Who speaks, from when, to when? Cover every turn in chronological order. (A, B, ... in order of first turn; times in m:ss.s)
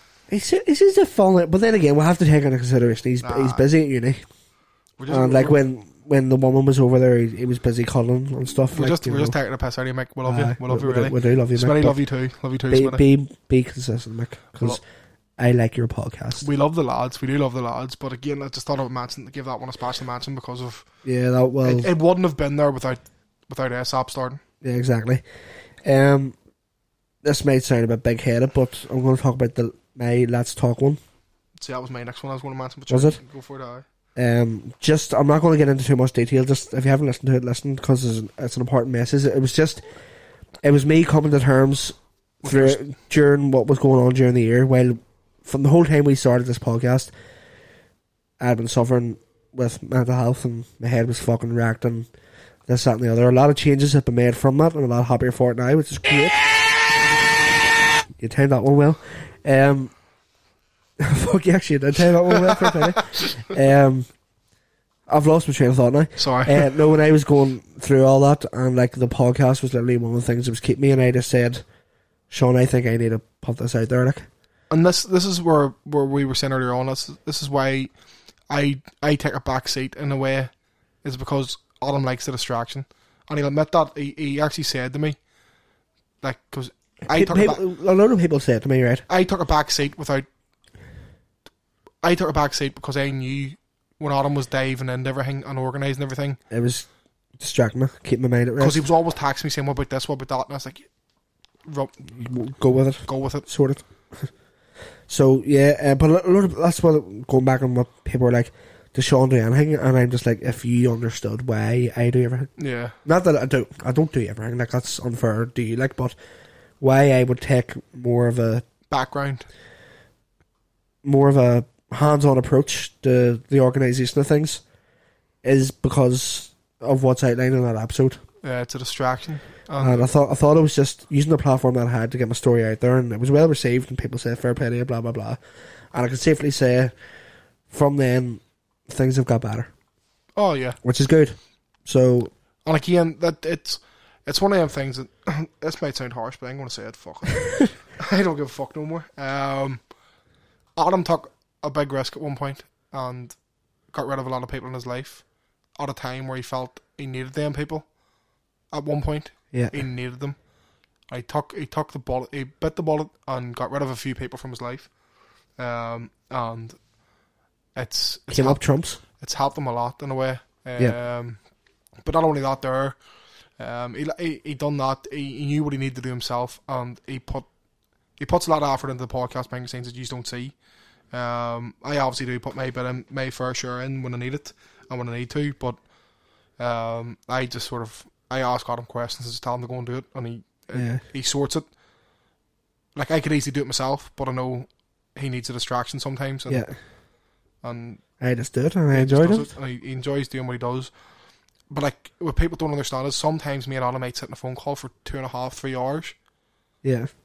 0:00.3-0:04.2 A
0:03.2-0:03.6 B
0:05.0-0:05.6 B
0:05.1-0:09.4 A
0:08.7-0:13.0 B
0:10.2-0:12.0 A
0:12.7-0:14.8 A
0:15.4-0:16.5 A
0:16.4-0:20.9 B
0:21.0-0:21.9 A
0:21.6-0:24.4 B
0:24.6-0:25.2 A
0:25.8-0:26.4 A
0:27.2-0:31.0 A
0:31.6-0:33.8 B
0:32.9-0:33.2 A
0:34.2-0:39.8 A
0:40.6-0:47.1 A
0:42.4-0:42.8 B
0:48.4-0:52.1 A
0:52.7-0:56.4 A
0:58.2-0:59.9 A
1:01.0-1:04.1 A
1:05.1-1:11.6 A
1:06.2-1:06.7 B
1:12.3-1:14.3 A
1:14.7-1:17.9 B
1:18.5-1:25.2 B
1:26.2-1:27.6 B
1:27.1-1:29.0 A
1:29.1-1:30.2 B
1:32.0-1:36.4 B
1:36.5-1:38.8 A
1:38.6-1:40.9 B
1:41.6-1:41.9 B
1:42.1-1:44.3 A
1:43.1-1:43.4 B
1:45.1-1:52.5 A
1:52.6-1:53.0 B
1:53.0-1:56.2 A
1:56.8-1:58.6 A
1:58.9-1:59.4 B
2:01.0-2:04.6 A
2:05.4-2:08.2 A
2:08.4-2:10.1 B
2:09.8-2:15.4 A
2:15.9-2:16.9 A
2:17.7-2:19.7 A
2:20.4-2:20.8 B
2:20.8-2:22.3 A
2:22.6-2:29.8 B
2:30.8-2:33.4 B
2:33.9-2:37.9 B
2:38.7-2:40.4 B
2:39.5-2:39.8 A
2:41.1-2:44.9 B
2:45.6-2:46.8 B
2:47.7-2:48.6 B
2:48.3-2:49.0 A
2:49.2-2:51.4 B
2:52.0-2:53.0 B
2:53.6-2:57.5 B
2:58.2-3:00.5 B
3:01.1-3:05.8 B
3:06.6-3:11.6 B
3:10.7-3:11.0 A
3:12.9-3:16.7 B
3:16.5-3:16.7 A
3:17.6-3:18.0 B
3:18.2-3:19.5 A
3:18.9-3:20.9 B
3:21.7-3:26.2 B
3:26.8-3:27.1 A